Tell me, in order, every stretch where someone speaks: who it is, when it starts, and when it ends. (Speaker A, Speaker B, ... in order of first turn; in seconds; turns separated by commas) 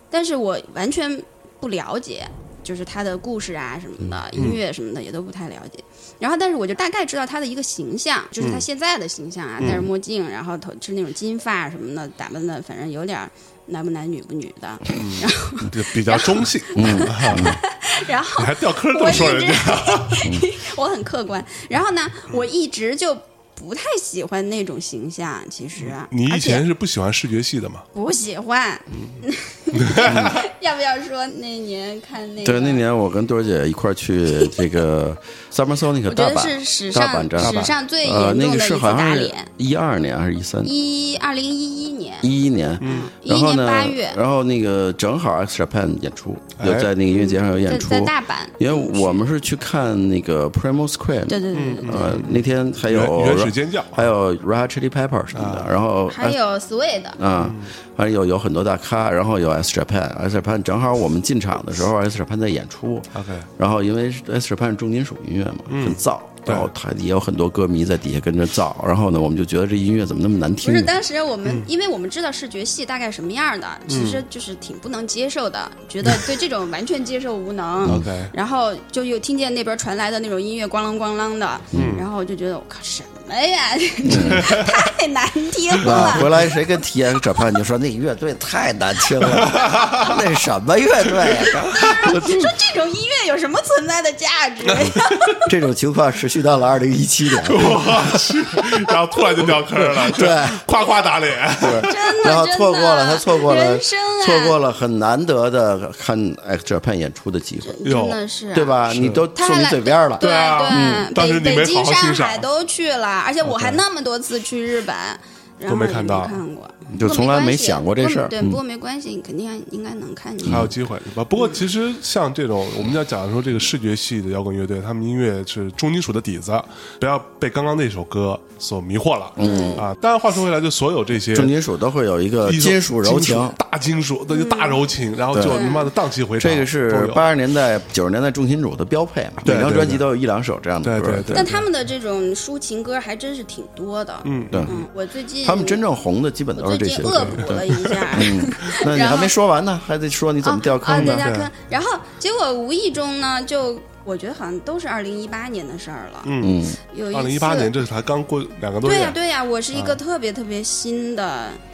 Speaker A: 0.1-26.6, Speaker B: 8.4-8.6, Speaker B: 9.6-9.8, Speaker B: 14.9-17.6, Speaker C: 16.8-17.6, Speaker B: 18.3-20.3, Speaker B: 25.8-27.9, Speaker A: 27.9-32.8, Speaker B: 29.7-30.4, Speaker C: 30.0-30.4, Speaker C: 32.4-40.7, Speaker A: 36.1-39.5, Speaker B: 37.4-37.7, Speaker A: 40.6-44.2, Speaker C: 42.2-56.4, Speaker B: 42.8-43.1, Speaker B: 46.6-46.9, Speaker A: 47.1-49.2, Speaker A: 51.3-52.1, Speaker B: 51.5-54.1, Speaker B: 55.3-55.7, Speaker A: 56.1-57.2, Speaker C: 57.2-70.9, Speaker B: 57.3-57.7, Speaker B: 63.1-63.5, Speaker B: 65.7-66.7, Speaker A: 70.6-86.5, Speaker B: 73.9-74.2, Speaker B: 76.0-76.3, Speaker B: 77.8-78.3, Speaker C: 81.7-82.0, Speaker B: 81.7-82.0, Speaker C: 84.0-84.5, Speaker B: 84.2-84.8, Speaker C: 85.8-92.5, Speaker B: 85.8-86.2, Speaker B: 89.2-90.2, Speaker A: 91.7-95.5, Speaker C: 95.5-98.6, Speaker B: 97.4-102.0, Speaker C: 99.9-100.6, Speaker C: 101.6-107.8, Speaker A: 101.8-104.5, Speaker A: 107.6-108.8, Speaker B: 107.8-108.2, Speaker C: 108.5-111.1, Speaker B: 108.8-109.3, Speaker A: 109.3-120.7, Speaker B: 110.2-112.5, Speaker B: 113.4-113.8, Speaker B: 115.7-116.4, Speaker C: 116.9-118.6, Speaker B: 120.4-131.5, Speaker C: 129.4-129.8, Speaker A: 129.4-129.8, Speaker C: 131.3-133.6, Speaker B: 132.4-137.2, Speaker A: 134.3-134.8, Speaker C: 135.3-135.7, Speaker A: 135.4-135.9, Speaker C: 136.4-141.5, Speaker B: 139.4-140.0, Speaker B: 140.8-141.7, Speaker A: 141.3-145.8, Speaker B: 144.2-144.7, Speaker C: 144.5-144.7, Speaker C: 145.4-151.3, Speaker A: 146.6-149.3, Speaker B: 147.0-148.7, Speaker A: 150.4-156.3, Speaker B: 150.9-151.5, Speaker B: 156.2-159.2, Speaker C: 156.4-156.8, Speaker A: 156.9-157.7, Speaker A: 158.8-161.6, Speaker B: 159.7-160.0